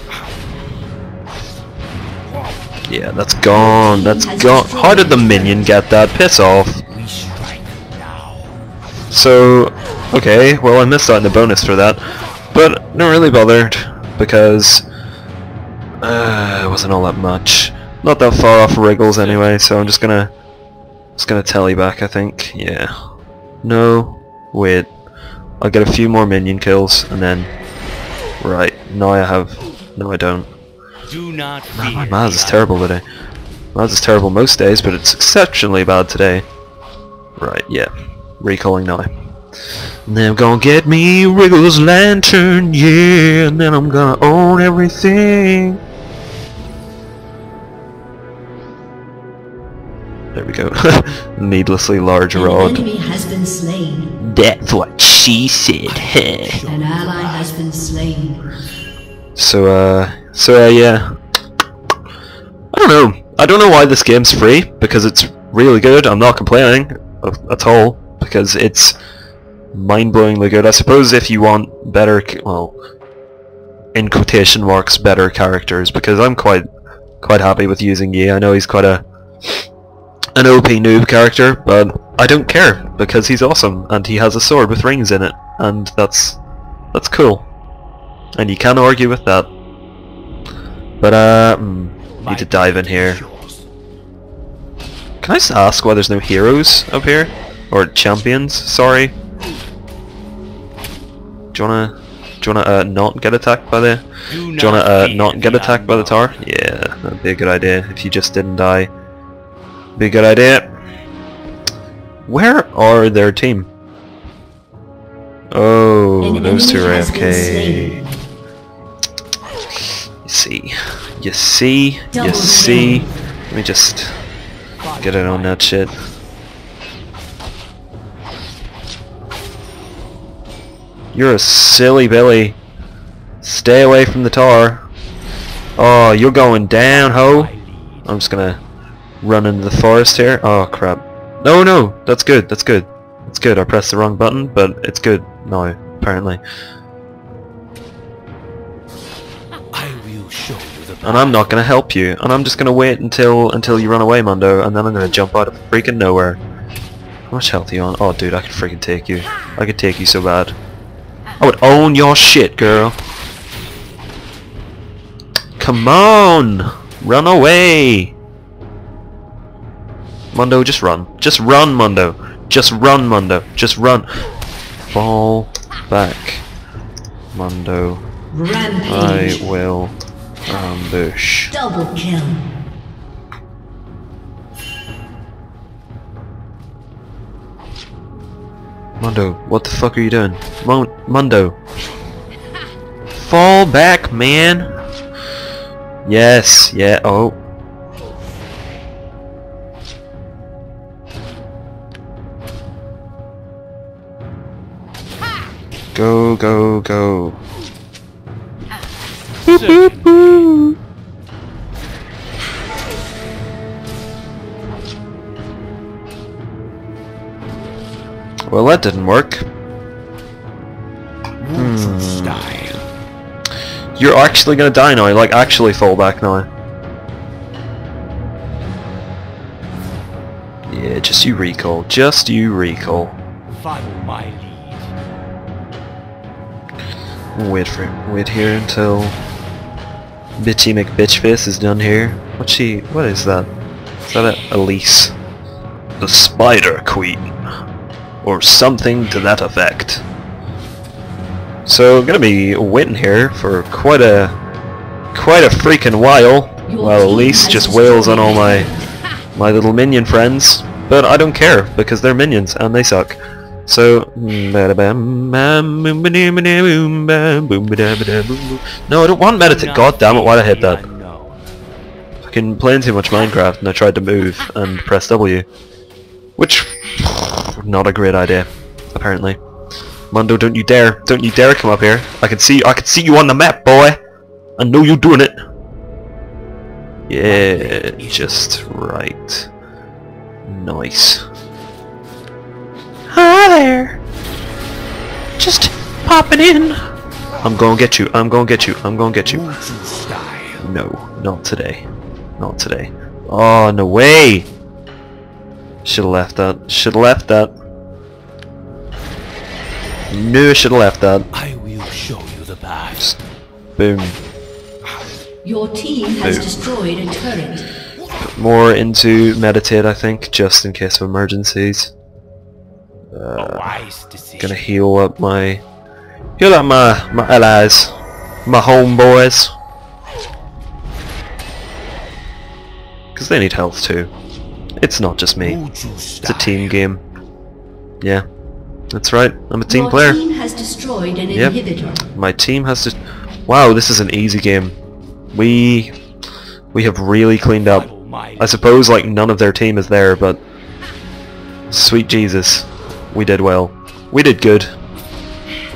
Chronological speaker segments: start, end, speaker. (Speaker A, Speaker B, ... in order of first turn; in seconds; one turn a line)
Speaker A: 2.9-6.8
Speaker B: 3.6-5.8
Speaker C: 6.9-8.6
Speaker A: 9.1-12.0
Speaker A: 12.5-14.8
Speaker A: 16.0-20.3
Speaker C: 19.1-19.4
Speaker A: 21.2-22.9
Speaker A: 23.6-24.9
Speaker A: 25.6-27.5
Speaker A: 28.4-30.5
Speaker C: 31.0-32.8
Speaker A: 31.7-33.0
Speaker A: 33.7-36.5
Speaker A: 37.4-39.1
Speaker A: 40.1-45.8
Speaker A: 50.3-52.9
Speaker B: 52.3-54.2
Speaker A: 54.2-56.6
Speaker C: 55.9-57.5
Speaker B: 56.7-58.5
Speaker A: 59.4-61.1
Speaker A: 62.7-69.0
Speaker A: 69.7-72.7
Speaker A: 73.9-76.7
Speaker A: 77.2-79.6
Speaker A: 80.3-86.4
Speaker A: 86.9-87.5
Speaker A: 88.4-89.5
Speaker A: 91.0-93.2
Speaker C: 92.2-93.6
Speaker A: 95.2-99.1
Speaker A: 101.5-108.9
Speaker C: 104.3-106.4
Speaker A: 110.0-110.7
Speaker A: 112.3-113.7
Speaker A: 115.5-118.0
Speaker B: 116.2-118.0
Speaker A: 120.2-124.2
Speaker B: 122.1-123.1
Speaker C: 124.8-125.6
Speaker A: 125.0-125.9
Speaker A: 131.1-132.6
Speaker A: 133.4-134.9
Speaker A: 135.8-137.5
Speaker C: 136.9-138.1
Speaker A: 138.0-138.6
Speaker A: 139.2-146.4
Speaker C: 149.7-151.5
Speaker A: 151.0-156.4
Speaker A: 157.3-160.5
Speaker A: 161.4-163.0
Speaker A: 165.6-168.1
Speaker A: 170.3-174.1
Speaker A: 174.9-176.4
Speaker A: 177.3-178.1
Speaker B: 178.3-179.5
Speaker A: 178.8-181.5
Speaker B: 181.5-182.5
Speaker A: 189.0-191.6
Speaker A: 193.1-194.7
Speaker A: 196.0-197.4
Speaker A: 205.9-207.4
Speaker A: 209.4-210.8
Speaker C: 209.5-210.3
Speaker A: 218.5-219.4
Speaker C: 221.4-222.8
Speaker A: 221.5-222.7
Speaker A: 223.9-226.5
Speaker A: 230.7-233.2
Speaker C: 233.5-234.9
Speaker A: 237.3-239.2
Speaker A: 240.4-243.5
Speaker A: 244.1-245.1
Speaker A: 246.0-247.3
Speaker A: 248.2-250.0
Speaker A: 251.6-254.3
Speaker A: 255.1-258.7
Speaker B: 256.6-258.9
Speaker A: 259.3-270.8
Speaker C: 269.4-271.4
Speaker A: 272.2-275.4
Speaker A: 276.4-279.4
Speaker A: 280.1-284.0
Speaker A: 284.6-285.3
Speaker A: 287.1-289.5
Speaker C: 287.2-288.6
Speaker A: 290.4-291.2
Speaker A: 293.1-294.0
Speaker A: 295.4-296.8
Speaker A: 297.4-299.5
Speaker C: 299.2-300.6
Speaker A: 300.6-301.9
Speaker A: 302.4-304.5
Speaker A: 305.8-307.5
Speaker A: 310.1-311.3
Speaker C: 311.3-313.0
Speaker A: 313.8-314.2
Speaker B: 315.4-317.7
Speaker A: 316.2-316.6
Speaker A: 318.2-321.9
Speaker A: 323.1-323.8
Speaker C: 323.4-324.6
Speaker A: 324.4-325.6
Speaker A: 326.4-327.9
Speaker A: 328.4-329.5
Speaker A: 333.1-334.1
Speaker A: 334.8-335.6
Speaker C: 335.4-336.8
Speaker A: 336.2-337.0
Speaker A: 338.9-340.2
Speaker B: 339.7-342.0
Speaker A: 341.3-344.8
Speaker A: 345.3-345.9
Speaker A: 346.7-350.4
Speaker C: 347.7-348.7
Speaker A: 351.7-354.7